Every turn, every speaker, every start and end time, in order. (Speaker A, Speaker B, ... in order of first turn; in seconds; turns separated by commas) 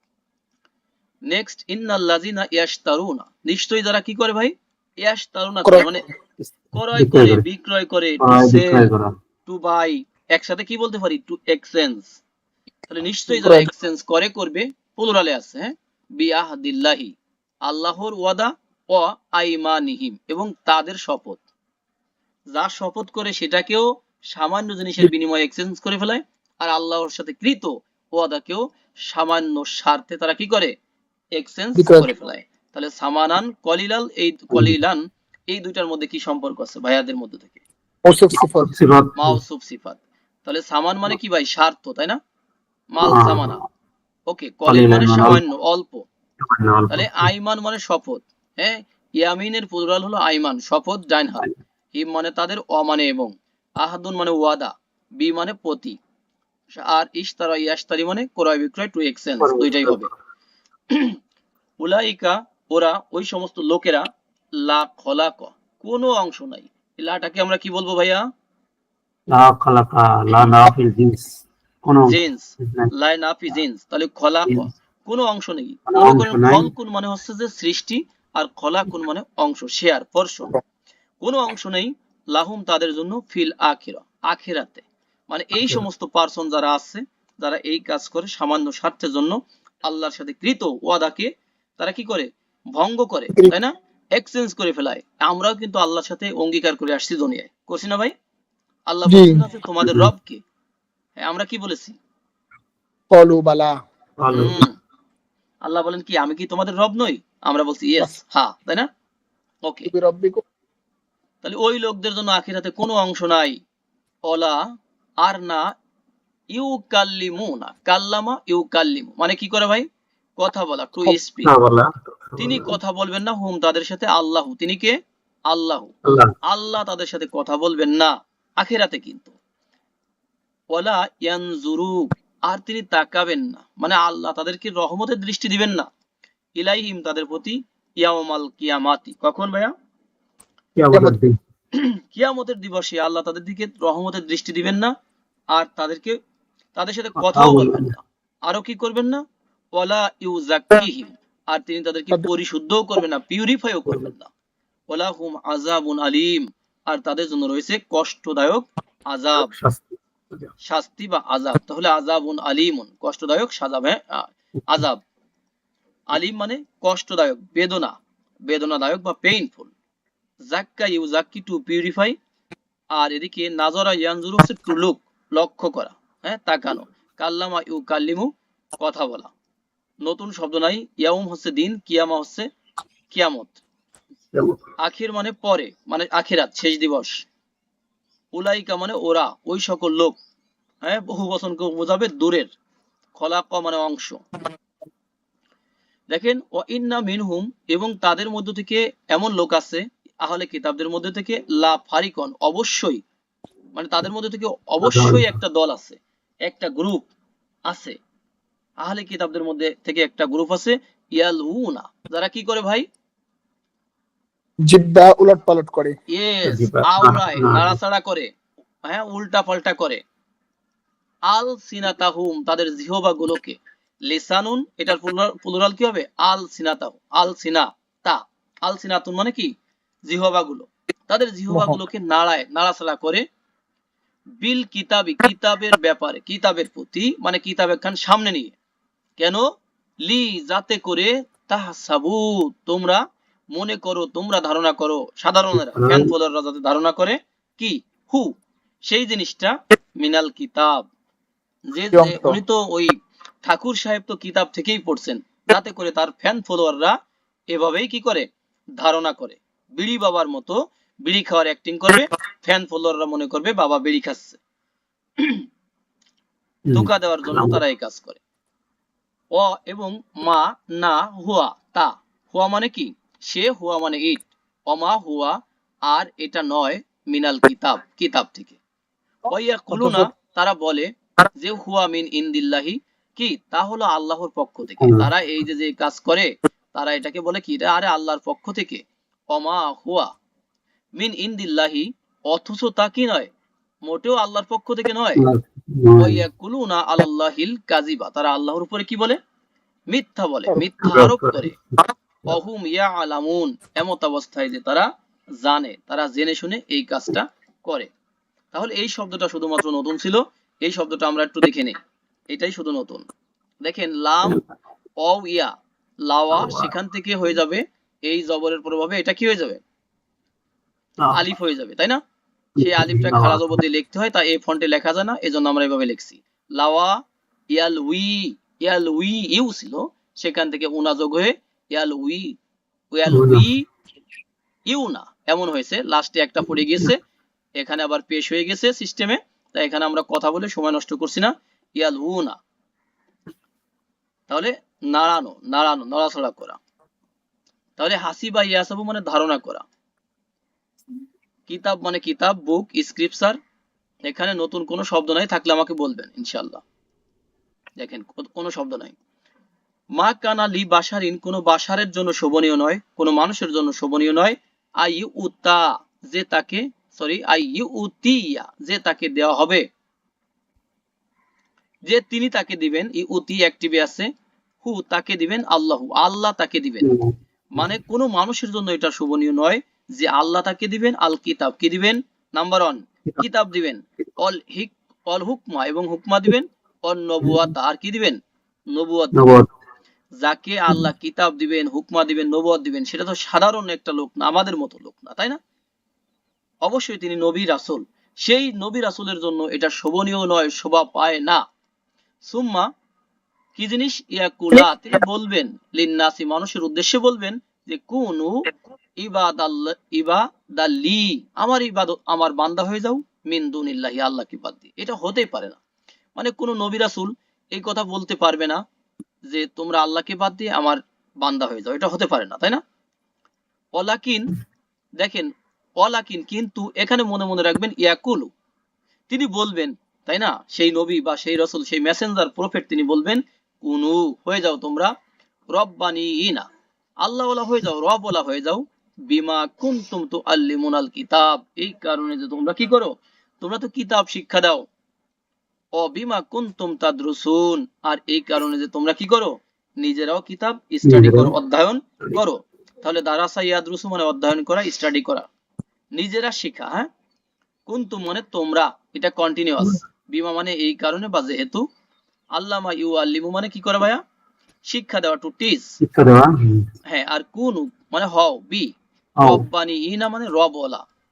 Speaker A: 1.3-6.1, Speaker B: 6.5-7.4, Speaker A: 6.7-8.9, Speaker B: 8.2-9.2, Speaker A: 9.5-12.2, Speaker A: 12.9-21.4, Speaker C: 13.3-13.7, Speaker A: 22.5-30.7, Speaker A: 31.4-37.6, Speaker C: 31.8-32.1, Speaker C: 38.0-38.7, Speaker B: 38.4-39.4, Speaker A: 39.2-42.2, Speaker A: 42.9-43.6, Speaker B: 43.0-43.6, Speaker A: 44.3-46.1, Speaker B: 44.7-45.4, Speaker B: 46.4-47.3, Speaker A: 46.9-56.0, Speaker A: 56.7-60.1, Speaker B: 59.4-60.1, Speaker A: 60.9-61.2, Speaker A: 61.8-68.3, Speaker B: 69.3-72.9, Speaker A: 72.1-80.6, Speaker B: 75.9-76.7, Speaker A: 81.2-98.1, Speaker A: 98.9-100.4, Speaker C: 99.1-99.4, Speaker A: 101.2-102.0, Speaker C: 103.1-103.7, Speaker B: 104.2-104.7, Speaker A: 104.3-104.8, Speaker A: 105.6-108.9, Speaker A: 109.6-109.9, Speaker C: 109.9-110.4, Speaker A: 111.4-113.6, Speaker A: 114.3-114.6, Speaker A: 115.2-115.7, Speaker A: 116.5-121.5, Speaker B: 121.4-122.8, Speaker A: 122.4-129.4, Speaker B: 126.0-126.3, Speaker A: 130.7-135.9, Speaker A: 136.6-139.7, Speaker B: 140.8-141.4, Speaker C: 140.9-141.2, Speaker A: 141.7-144.9, Speaker A: 145.5-146.2, Speaker A: 146.8-154.3, Speaker B: 147.2-147.9, Speaker A: 154.9-159.6, Speaker B: 159.4-159.8, Speaker A: 160.6-165.0, Speaker A: 166.1-169.7, Speaker A: 170.4-172.2, Speaker A: 172.9-179.3, Speaker A: 180.0-182.5, Speaker A: 183.1-183.6, Speaker B: 184.3-184.6, Speaker A: 184.8-187.2, Speaker A: 188.3-190.2, Speaker A: 190.8-192.5, Speaker A: 193.2-194.2, Speaker A: 196.1-203.0, Speaker A: 203.8-207.1, Speaker B: 204.8-205.3, Speaker A: 207.7-208.0, Speaker A: 208.8-212.9, Speaker C: 214.7-215.9, Speaker A: 216.1-218.3, Speaker B: 216.4-217.8, Speaker A: 218.8-220.0, Speaker A: 221.3-229.5, Speaker A: 230.1-233.2, Speaker C: 231.5-231.8, Speaker A: 234.4-238.6, Speaker A: 239.2-239.4, Speaker A: 240.0-250.9, Speaker B: 245.8-246.1, Speaker A: 251.7-257.0, Speaker C: 251.9-252.4, Speaker A: 257.5-258.3, Speaker A: 258.8-264.4, Speaker A: 265.2-265.5, Speaker B: 266.7-267.6, Speaker A: 266.7-268.2, Speaker A: 269.3-278.6, Speaker A: 279.3-290.1, Speaker C: 279.8-280.1, Speaker B: 284.8-285.1, Speaker A: 291.0-293.3, Speaker A: 293.9-295.3, Speaker B: 295.2-296.2, Speaker A: 296.0-299.2, Speaker A: 299.9-301.6, Speaker B: 300.8-301.9, Speaker A: 302.3-304.9, Speaker A: 305.4-307.9, Speaker A: 308.5-311.8, Speaker A: 312.3-313.1, Speaker A: 313.6-314.4, Speaker A: 315.0-315.5, Speaker A: 316.0-319.6, Speaker B: 316.4-316.7, Speaker A: 321.1-322.0, Speaker B: 322.6-323.6, Speaker A: 322.6-332.4, Speaker A: 332.9-333.7, Speaker B: 333.1-333.5, Speaker A: 334.7-337.0, Speaker A: 337.6-342.4, Speaker A: 344.3-346.6, Speaker A: 347.8-349.6, Speaker A: 351.5-353.4, Speaker A: 354.0-356.6, Speaker A: 357.8-358.9, Speaker A: 359.9-369.6, Speaker A: 371.9-374.1, Speaker A: 374.6-376.9, Speaker B: 376.8-377.7, Speaker A: 377.5-388.2, Speaker B: 387.2-387.5, Speaker A: 388.7-389.3, Speaker B: 389.1-389.5, Speaker A: 390.2-395.4, Speaker A: 396.6-401.4, Speaker A: 402.2-402.7, Speaker A: 403.6-408.4, Speaker A: 409.0-415.6, Speaker A: 416.2-418.6, Speaker A: 419.3-422.6, Speaker A: 423.8-424.3, Speaker A: 425.0-428.3, Speaker A: 429.1-434.9, Speaker A: 435.5-436.5, Speaker A: 437.0-444.7, Speaker A: 445.8-455.3, Speaker B: 450.9-451.3, Speaker A: 455.9-456.9, Speaker A: 457.7-461.7, Speaker A: 462.4-464.0, Speaker A: 464.7-465.8, Speaker B: 465.8-466.7, Speaker A: 466.9-468.7, Speaker A: 469.2-470.8